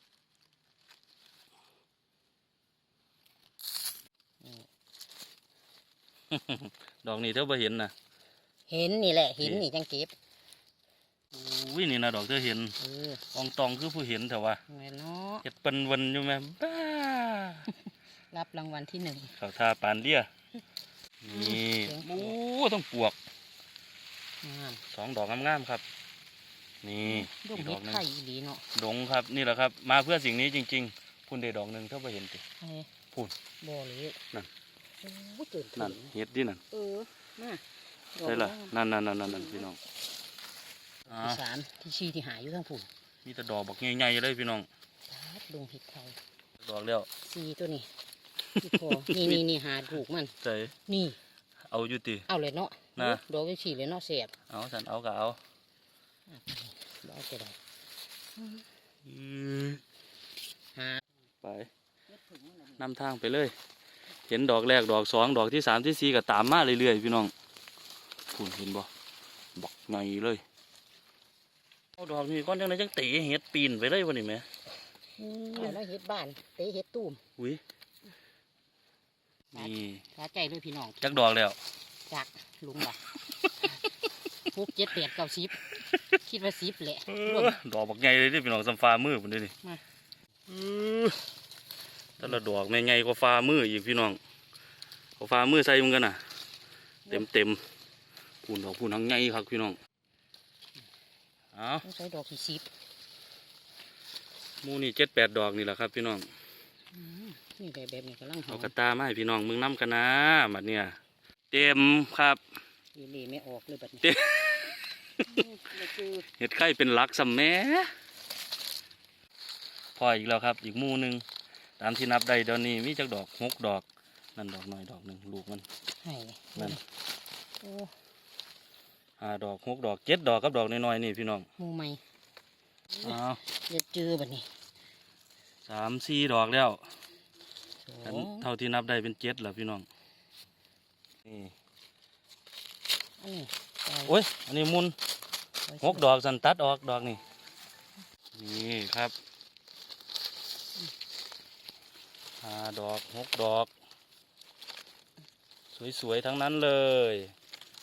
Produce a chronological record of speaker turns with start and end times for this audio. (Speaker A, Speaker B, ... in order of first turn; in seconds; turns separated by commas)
Speaker A: 4.4-4.7, Speaker B: 6.3-7.9, Speaker A: 8.7-10.1, Speaker B: 11.3-12.8, Speaker A: 12.8-13.3, Speaker B: 13.3-14.6, Speaker A: 14.7-15.4, Speaker B: 15.4-17.7, Speaker A: 18.3-19.3, Speaker B: 19.3-20.3, Speaker B: 21.2-23.1, Speaker A: 21.3-22.3, Speaker A: 24.4-24.8, Speaker B: 24.9-25.8, Speaker B: 26.8-28.0, Speaker A: 27.1-28.6, Speaker B: 28.7-32.4, Speaker A: 32.6-32.9, Speaker A: 33.6-34.2, Speaker A: 35.0-36.1, Speaker B: 35.8-36.6, Speaker A: 36.7-37.6, Speaker A: 38.1-38.7, Speaker B: 38.2-39.8, Speaker A: 39.2-39.6, Speaker A: 41.1-42.9, Speaker B: 41.1-41.4, Speaker B: 43.2-44.7, Speaker A: 45.1-46.2, Speaker B: 46.6-47.1, Speaker A: 47.2-47.9, Speaker B: 48.5-49.4, Speaker A: 48.6-50.3, Speaker B: 50.4-50.7, Speaker A: 50.9-51.2, Speaker B: 51.7-52.3, Speaker A: 52.3-54.3, Speaker B: 53.0-53.2, Speaker B: 54.5-55.4, Speaker A: 56.3-57.6, Speaker A: 58.4-58.6, Speaker B: 59.0-59.8, Speaker A: 60.7-61.0, Speaker B: 61.4-61.7, Speaker A: 62.1-62.9, Speaker B: 62.8-63.5, Speaker B: 64.3-67.3, Speaker B: 68.3-68.9, Speaker B: 69.5-70.4, Speaker B: 72.0-74.5, Speaker A: 75.2-77.2, Speaker B: 77.4-77.6, Speaker B: 79.5-80.0, Speaker A: 79.5-81.2, Speaker B: 81.0-81.6, Speaker A: 82.1-83.0, Speaker A: 84.5-87.5, Speaker B: 87.1-89.5, Speaker B: 90.5-91.2, Speaker B: 92.2-94.2, Speaker B: 95.2-96.2, Speaker B: 97.1-97.6, Speaker B: 98.4-99.8, Speaker B: 101.5-101.8, Speaker A: 101.8-102.7, Speaker B: 104.6-106.3, Speaker A: 106.9-108.7, Speaker B: 108.5-111.0, Speaker B: 111.5-112.4, Speaker A: 112.9-114.1, Speaker B: 114.0-115.2, Speaker A: 115.2-116.2, Speaker B: 116.4-117.9, Speaker B: 120.0-121.2, Speaker B: 121.8-125.6, Speaker A: 126.0-126.8, Speaker A: 127.6-127.9, Speaker B: 129.2-131.4, Speaker A: 131.6-132.0, Speaker A: 132.9-134.5, Speaker B: 133.0-133.4, Speaker B: 135.7-136.8, Speaker A: 137.8-138.5, Speaker B: 138.0-139.8, Speaker B: 141.2-141.5, Speaker A: 143.2-144.2, Speaker B: 144.1-144.9, Speaker A: 145.7-146.0, Speaker B: 145.8-147.2, Speaker B: 148.3-149.1, Speaker B: 152.4-153.7, Speaker B: 155.7-157.3